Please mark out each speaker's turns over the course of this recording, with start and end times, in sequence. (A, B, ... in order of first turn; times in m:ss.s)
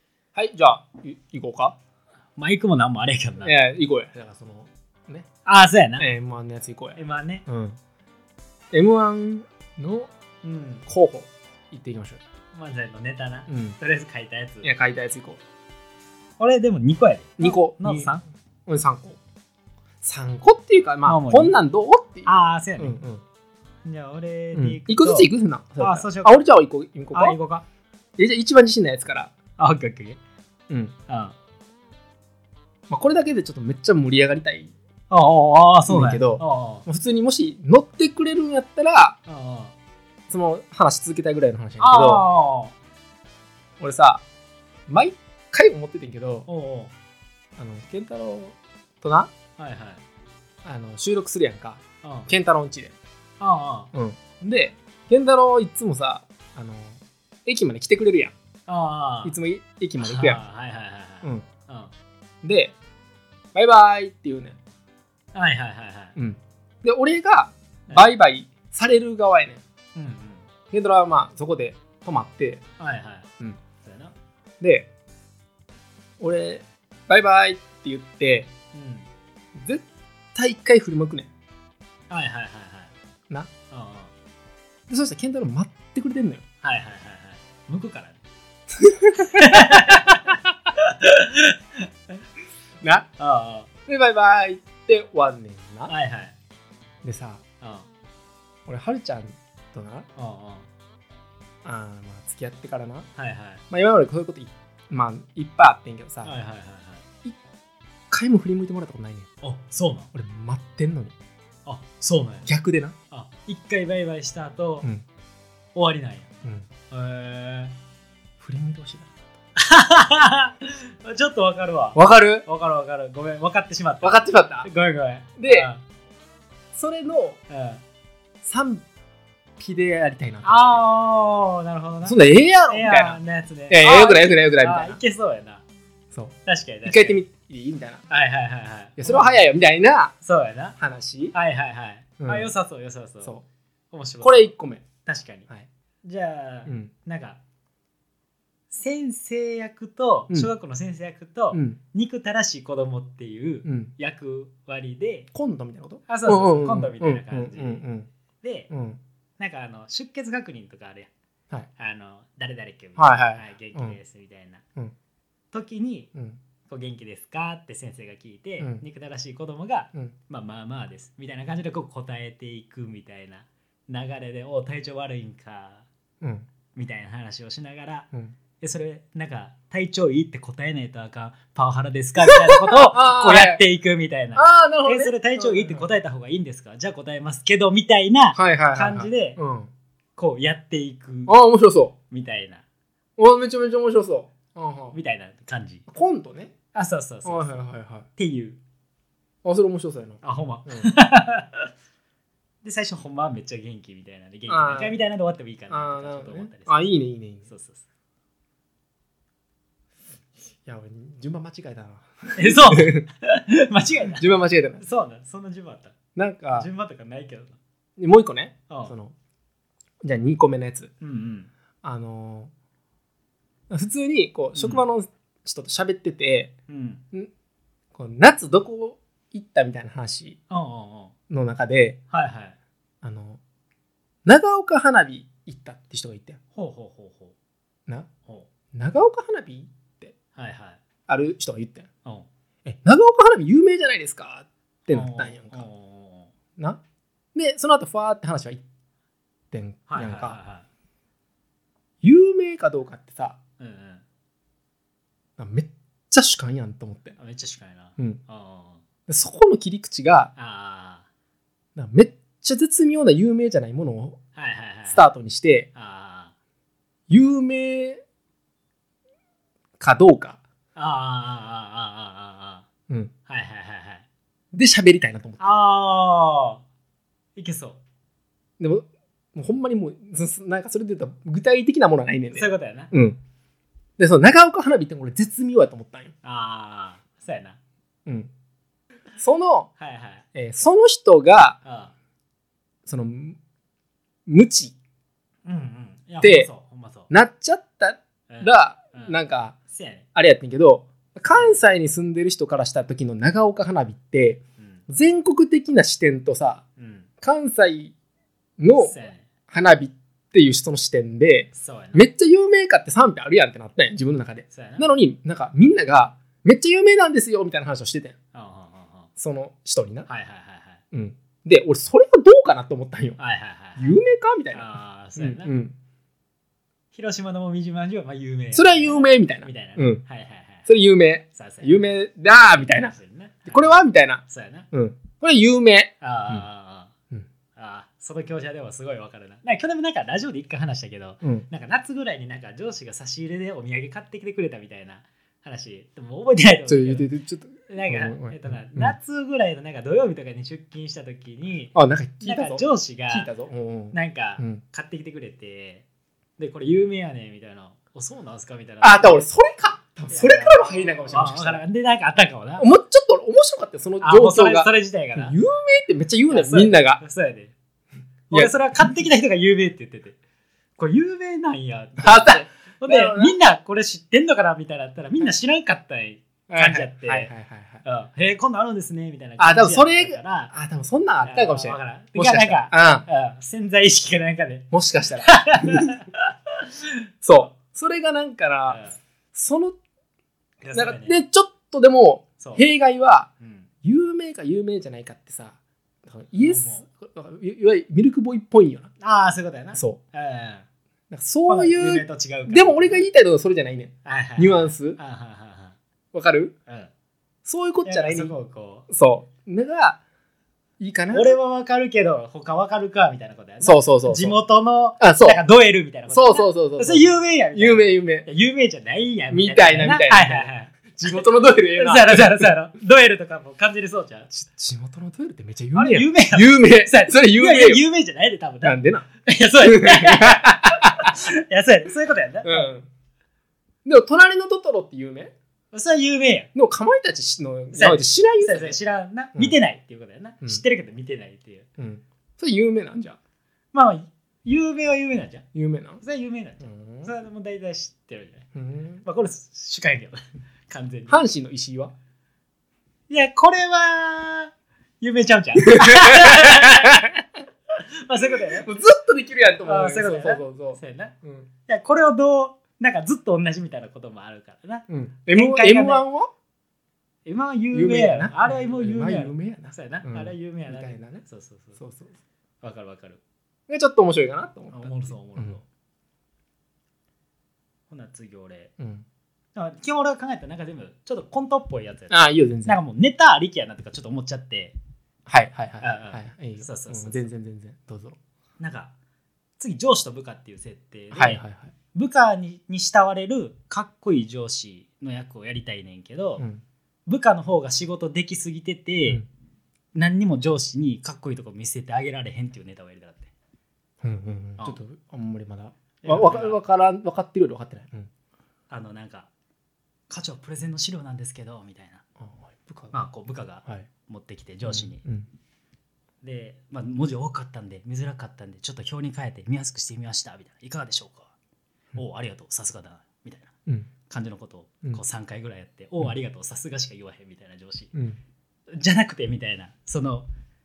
0:00.3-0:01.7 A
0:02.4-0:03.5 B
0:03.4-0:05.3 A
0:05.4-0:06.1 B
0:06.0-0:07.8 A
0:07.0-0:07.4 B
0:08.7-0:10.1 A
0:10.4-0:10.8 B
0:10.9-0:12.2 A
0:12.5-0:14.7 B
0:13.5-0:13.8 A
0:14.6-0:15.4 A
0:16.4-0:18.2 B
0:17.4-0:18.2 A
0:18.7-0:19.2 A
0:20.0-0:23.2 A
0:21.0-0:21.6 B
0:22.2-0:23.0 B
0:23.8-0:26.5 B
0:24.5-0:27.4 A
0:27.1-0:27.6 B
0:28.2-0:29.3 A
0:29.6-0:30.2 B
0:30.7-0:31.0 A
0:31.1-0:31.3 B
0:32.9-0:34.7 A
0:35.1-0:36.8 B
0:35.9-0:39.2 A
0:39.2-0:39.7 B
0:40.3-0:42.2 A
0:41.8-0:42.7 B
0:43.8-0:44.2 A
0:44.9-0:46.5 A
0:46.5-0:46.9 B
0:47.6-0:49.3 A
0:49.6-0:50.0 B
0:50.6-0:52.9 A
0:52.0-0:52.3 B
0:53.4-0:53.9 B
0:53.9-0:58.3 A
0:58.7-0:59.4 B
0:59.2-1:00.4 A
1:00.0-1:01.9 B
1:02.4-1:02.8 A
1:03.5-1:04.6 A
1:05.3-1:06.1 B
1:06.2-1:09.6 A
1:07.9-1:08.1 B
1:09.9-1:10.4 B
1:10.7-1:12.6 A
1:12.8-1:13.3 B
1:13.8-1:14.1 B
1:14.6-1:14.9 A
1:16.2-1:18.5 A
1:18.7-1:19.1 B
1:19.5-1:21.3 A
1:22.1-1:22.9 B
1:23.7-1:24.1 B
1:24.9-1:26.4 A
1:26.6-1:28.2 B
1:28.8-1:30.4 A
1:29.2-1:32.1 B
1:32.8-1:33.1 A
1:33.2-1:33.7 B
1:33.9-1:35.9 A
1:35.9-1:36.4 B
1:37.0-1:37.4 A
1:37.6-1:37.9 B
1:38.6-1:40.1 A
1:40.2-1:40.7 B
1:41.6-1:43.1 A
1:43.2-1:43.6 B
1:43.7-1:46.4 A
1:46.2-1:47.0 B
1:48.1-1:49.3 A
1:49.4-1:50.1 B
1:50.1-1:51.1 A
1:51.6-1:52.5 B
1:52.4-1:53.0 A
1:53.1-1:54.9 B
1:55.7-1:56.3 B
1:56.4-1:56.7 A
1:56.9-1:57.8 B
1:58.4-1:59.2 A
1:59.6-2:05.8 B
2:01.9-2:02.5 A
2:04.0-2:04.7 A
2:05.4-2:05.7 A
2:06.7-2:07.4 A
2:07.5-2:07.8 B
2:08.4-2:08.9 A
2:09.6-2:10.8 A
2:10.4-2:12.2 B
2:12.0-2:15.0 A
2:12.7-2:15.6 B
2:16.1-2:18.0 A
2:16.4-2:17.2 B
2:18.1-2:19.4 B
2:19.0-2:20.1 A
2:20.2-2:20.8 B
2:20.8-2:21.3 A
2:21.3-2:23.4 B
2:22.2-2:22.5 A
2:23.9-2:24.5 B
2:24.2-2:24.8 A
2:25.0-2:25.5 B
2:26.0-2:27.4 B
2:26.7-2:26.9 A
2:28.7-2:35.3 B
2:31.5-2:31.8 A
2:33.6-2:33.9 A
2:35.3-2:38.1 A
2:36.1-2:37.8 B
2:38.4-2:38.7 B
2:38.7-2:39.0 A
2:39.4-2:41.1 B
2:41.8-2:44.6 B
2:43.0-2:44.0 A
2:45.5-2:46.1 B
2:46.7-2:55.8 B
2:48.6-2:48.8 A
2:56.2-2:56.4 A
2:56.7-2:58.1 B
2:58.6-3:09.4 B
3:02.2-3:03.6 A
3:04.4-3:05.9 A
3:08.3-3:09.7 A
3:10.2-3:11.3 B
3:11.3-3:11.9 A
3:12.1-3:12.6 B
3:13.2-3:15.0 A
3:14.9-3:15.8 B
3:15.9-3:16.5 A
3:16.7-3:17.6 B
3:17.2-3:18.1 A
3:18.2-3:18.6 B
3:19.4-3:20.9 A
3:20.2-3:21.7 B
3:22.6-3:26.9 B
3:24.5-3:25.0 A
3:25.7-3:27.5 A
3:27.4-3:27.8 B
3:30.5-3:33.0 A
3:32.4-3:34.2 B
3:34.2-3:34.8 A
3:34.8-3:35.9 B
3:36.1-3:36.7 A
3:36.5-3:37.6 B
3:38.0-3:39.1 A
3:38.7-3:38.9 B
3:40.0-3:40.9 A
3:41.0-3:41.5 B
3:41.8-3:42.5 A
3:43.7-3:46.5 A
3:44.5-3:44.8 B
3:46.7-3:47.0 B
3:47.9-3:50.4 A
3:50.5-3:51.1 B
3:51.3-3:52.0 A
3:52.1-3:52.6 B
3:53.0-3:53.4 A
3:54.2-3:56.4 A
3:56.6-3:57.3 B
3:58.7-4:00.1 A
4:00.4-4:00.8 B
4:01.1-4:01.9 A
4:02.6-4:05.6 A
4:04.9-4:06.3 B
4:07.3-4:08.6 A
4:09.5-4:10.4 A
4:09.9-4:10.6 B
4:12.0-4:13.4 A
4:13.6-4:14.0 B
4:15.4-4:17.2 A
4:17.2-4:18.8 B
4:19.1-4:20.3 A
4:20.4-4:21.0 B
4:21.8-4:24.2 A
4:24.4-4:25.0 B
4:24.9-4:25.7 A
4:25.7-4:26.3 B
4:27.1-4:28.0 A
4:29.8-4:30.4 A
4:30.8-4:32.6 B
4:33.3-4:34.0 B
4:34.5-4:35.5 A
4:35.4-4:36.6 B
4:37.4-4:37.8 B
4:38.6-4:43.2 A
4:42.3-4:42.9 B
4:44.0-4:46.1 A
4:46.2-4:47.6 B
4:49.2-4:49.7 A
4:49.8-4:50.2 B
4:50.3-4:51.6 A
4:51.6-4:51.9 B
4:52.8-4:53.4 A
4:54.3-4:54.8 A
4:55.4-4:57.1 B
4:56.2-4:56.5 A
4:57.1-4:59.6 A
4:58.3-5:00.1 B
5:00.1-5:06.6 A
5:01.3-5:01.6 B
5:06.8-5:07.1 B
5:07.2-5:07.9 A
5:08.6-5:18.1 A
5:08.8-5:09.3 B
5:11.5-5:12.0 B
5:14.5-5:14.9 B
5:18.3-5:19.1 B
5:19.2-5:20.1 A
5:20.1-5:20.8 B
5:20.9-5:23.2 A
5:23.2-5:24.0 B
5:23.8-5:25.7 A
5:24.5-5:25.5 B
5:26.9-5:30.6 B
5:28.5-5:30.0 A
5:30.7-5:36.4 A
5:31.3-5:34.7 B
5:36.0-5:36.9 B
5:37.6-5:47.1 B
5:41.2-5:41.5 A
5:46.7-5:49.0 A
5:47.7-5:53.3 B
5:51.7-5:54.6 A
5:53.9-5:55.9 B
5:56.4-5:59.3 B
5:58.8-6:01.6 A
6:00.1-6:02.6 B
6:02.6-6:07.0 A
6:04.0-6:05.4 B
6:06.3-6:07.5 B
6:08.3-6:10.2 B
6:10.8-6:17.3 B
6:12.0-6:13.4 A
6:16.5-6:17.8 A
6:17.8-6:20.5 B
6:19.4-6:23.1 A
6:21.2-6:26.9 B
6:24.7-6:26.0 A
6:27.2-6:29.8 A
6:28.7-6:29.0 B
6:30.6-6:31.2 B
6:30.7-6:33.3 A
6:32.4-6:32.6 B
6:33.4-6:33.7 B
6:33.8-6:38.9 A
6:36.4-6:36.8 B
6:39.0-6:40.6 B
6:39.7-6:40.0 A
6:41.1-6:45.0 A
6:41.5-6:43.0 B
6:44.0-6:45.8 B
6:46.1-6:46.5 A
6:47.4-6:48.3 A
6:47.8-6:48.9 B
6:48.9-6:50.0 A
6:50.8-6:51.4 A
6:51.1-7:04.3 B
6:53.6-6:54.4 A
6:55.0-6:55.4 A
6:56.1-6:58.3 A
6:59.3-7:02.6 A
7:04.3-7:07.8 A
7:05.7-7:12.7 B
7:08.6-7:09.1 A
7:09.6-7:11.2 A
7:12.4-7:12.9 A
7:13.8-7:15.3 A
7:15.7-7:16.5 B
7:16.5-7:18.8 A
7:17.7-7:21.7 B
7:21.8-7:23.2 A
7:23.7-7:25.4 B
7:25.5-7:26.0 A
7:26.0-7:28.5 B
7:26.6-7:27.1 A
7:28.5-7:29.0 A
7:29.0-7:31.2 B
7:31.1-7:31.9 A
7:33.1-7:37.1 B
7:35.7-7:37.2 A
7:37.7-7:38.7 B
7:38.3-7:41.5 A
7:39.6-7:41.1 B
7:41.7-7:46.0 B
7:44.9-7:46.3 A
7:47.2-7:51.8 B
7:47.7-7:51.2 A
7:51.8-7:52.2 A
7:52.6-7:53.2 B
7:53.7-7:55.6 A
7:54.7-7:55.6 B
7:57.9-7:58.7 B
7:58.8-7:59.0 A
7:59.5-8:04.8 B
8:02.1-8:02.8 A
8:05.3-8:08.2 A
8:05.8-8:07.2 B
8:08.6-8:08.9 B
8:09.6-8:11.4 B
8:11.1-8:11.7 A
8:11.9-8:16.4 B
8:17.0-8:19.2 B
8:19.9-8:23.3 B
8:24.0-8:28.1 A
8:26.0-8:26.6 B
8:28.7-8:29.3 B
8:30.1-8:32.0 B
8:32.2-8:33.0 A
8:32.9-8:35.0 B
8:34.6-8:35.3 A
8:36.2-8:41.3 B
8:41.9-8:43.5 B
8:44.1-8:47.9 B
8:47.9-8:48.2 A
8:48.7-8:50.3 B